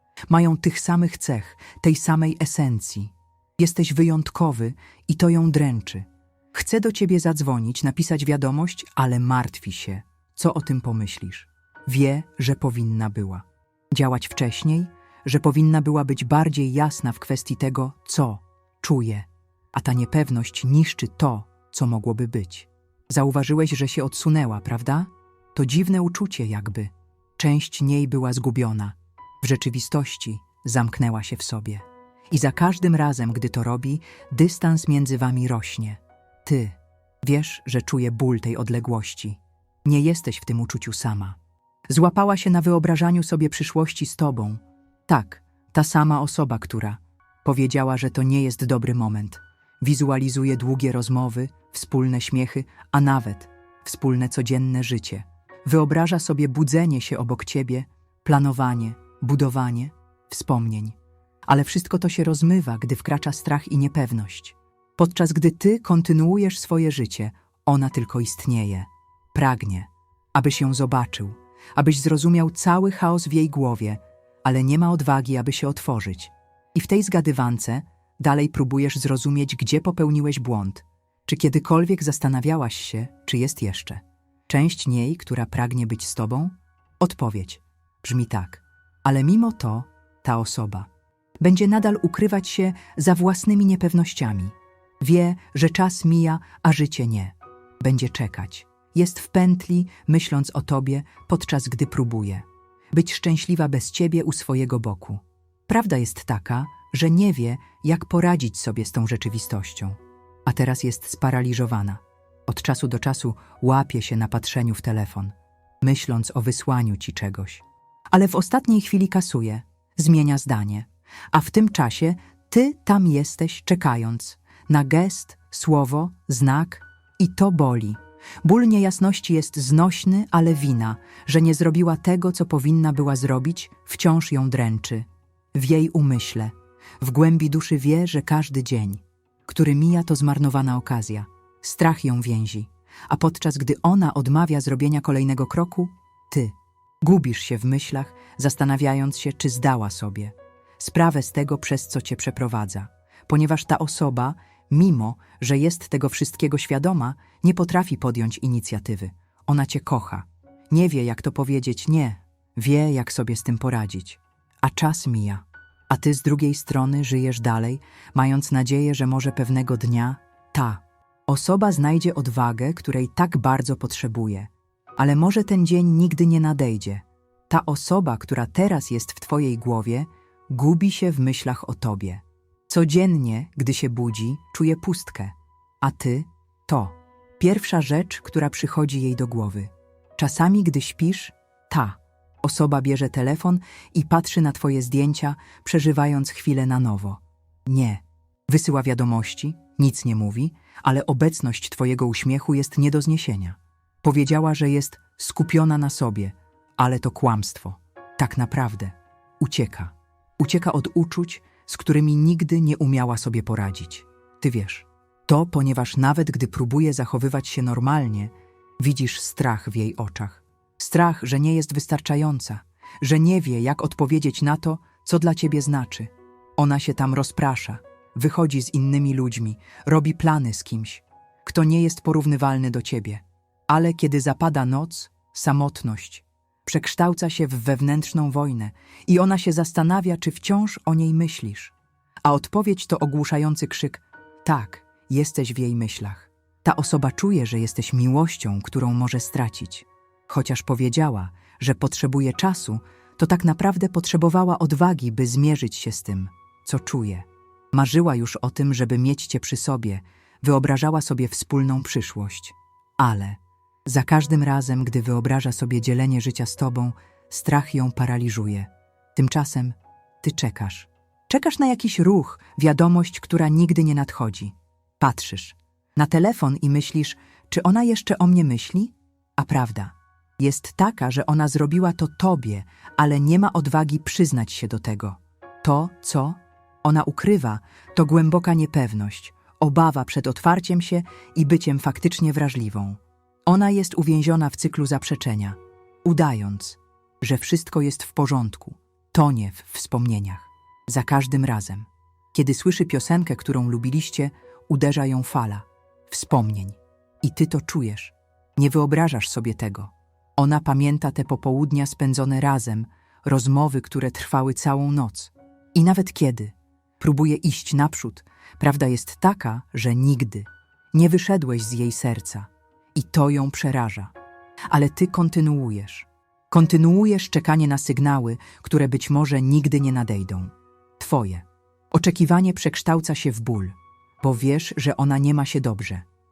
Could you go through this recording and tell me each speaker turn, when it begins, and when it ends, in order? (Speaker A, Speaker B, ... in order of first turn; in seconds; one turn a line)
Speaker A: 0.3-41.4
Speaker A: 41.9-61.0
Speaker A: 61.5-90.9
Speaker A: 91.4-324.1
Speaker A: 324.7-336.1